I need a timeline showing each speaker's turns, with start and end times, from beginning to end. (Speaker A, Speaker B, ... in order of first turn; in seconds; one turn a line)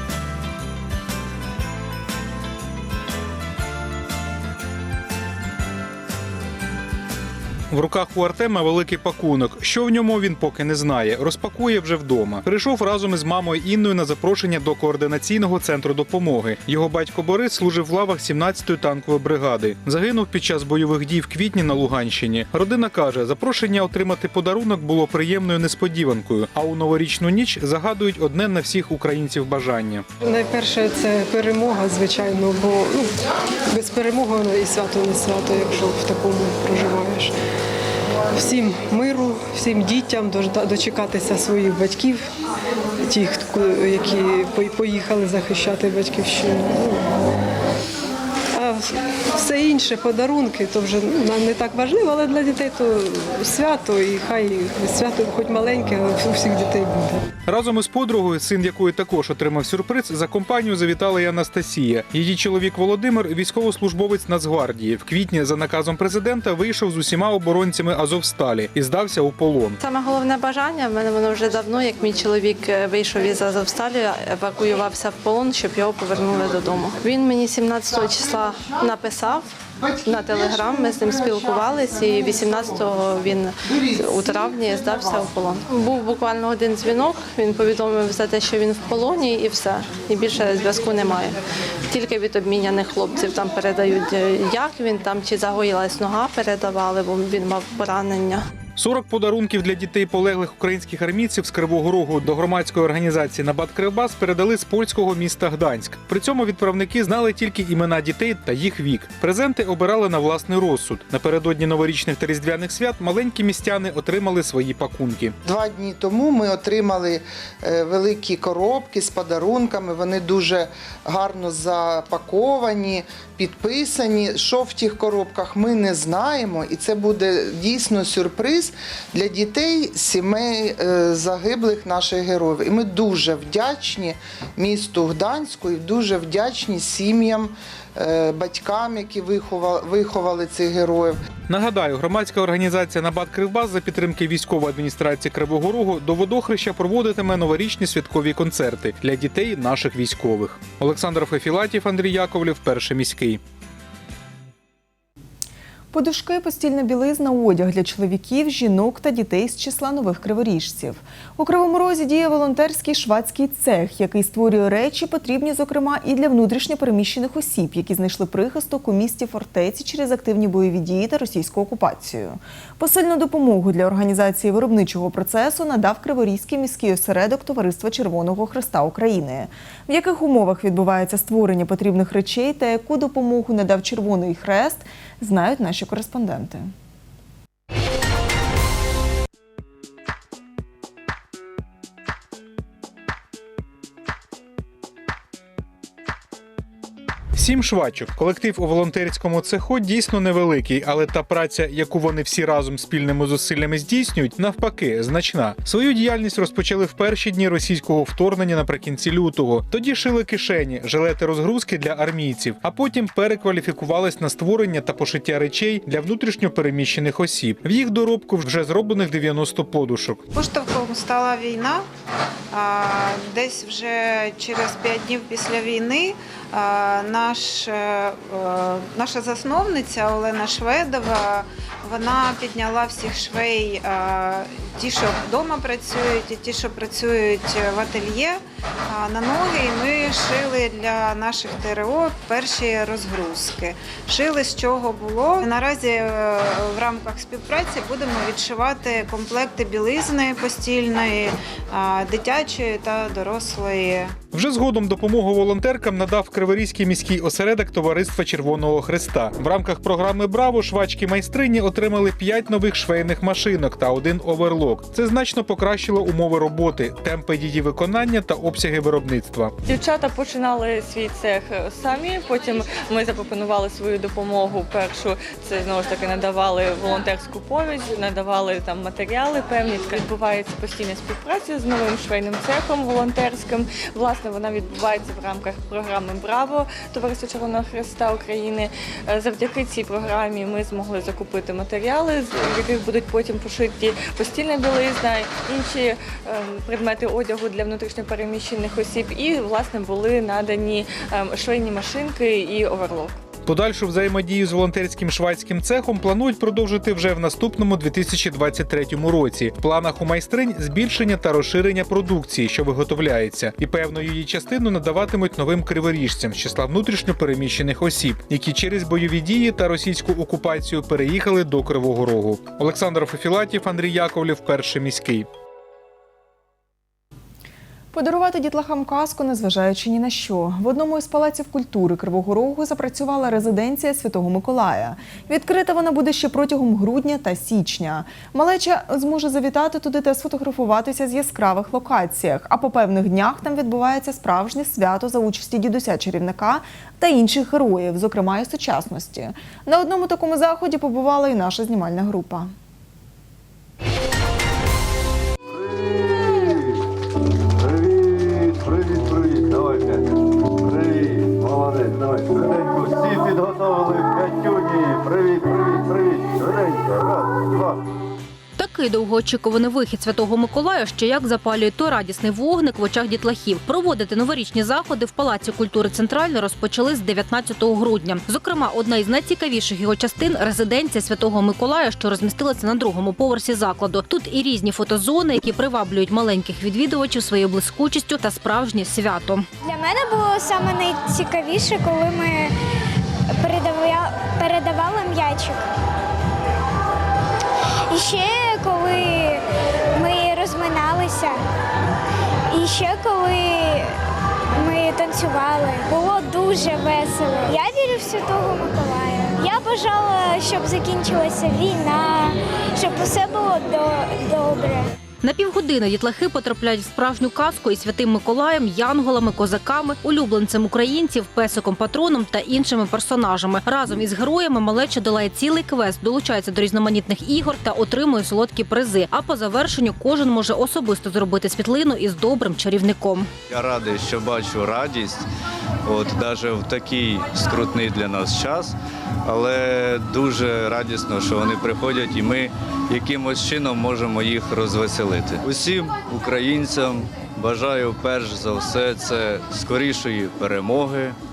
Speaker A: 7.7-30.0
Speaker B: 30.2-33.1
Speaker B: 33.7-37.3
Speaker B: 38.4-42.2
Speaker B: 43.0-47.0
Speaker B: 48.5-48.8
Speaker B: 49.4-57.2
Speaker A: 57.5-69.8
Speaker C: 69.8-79.4
Speaker D: 79.8-82.8
Speaker C: 80.2-83.5
Speaker D: 83.7-85.3
Speaker C: 84.1-91.3
Speaker C: 91.9-98.4
Speaker A: 98.8-115.3
Speaker D: 115.4-141.2
Speaker A: 141.5-153.4
Speaker E: 155.9-186.7
Speaker A: 197.3-220.2
Speaker F: 220.3-221.8
Speaker F: 222.5-254.1
Speaker A: 254.3-269.5
Speaker G: 269.6-303.2
Speaker A: 303.4-325.3
Speaker E: 327.9-352.5
Speaker H: 355.6-356.7
Speaker H: 357.7-360.0
Speaker H: 360.6-367.8
Speaker I: 368.6-389.4
Speaker J: 389.6-392.2
Speaker J: 393.5-395.4
Speaker J: 397.9-398.8
Speaker J: 400.0-401.0
Speaker J: 402.6-402.8
Speaker J: 404.6-405.6
Speaker J: 406.4-407.1
Speaker J: 407.9-408.5
Speaker J: 409.4-411.9
Speaker J: 412.8-413.9
Speaker I: 415.2-433.3
Speaker H: 433.5-435.2
Speaker H: 435.8-451.2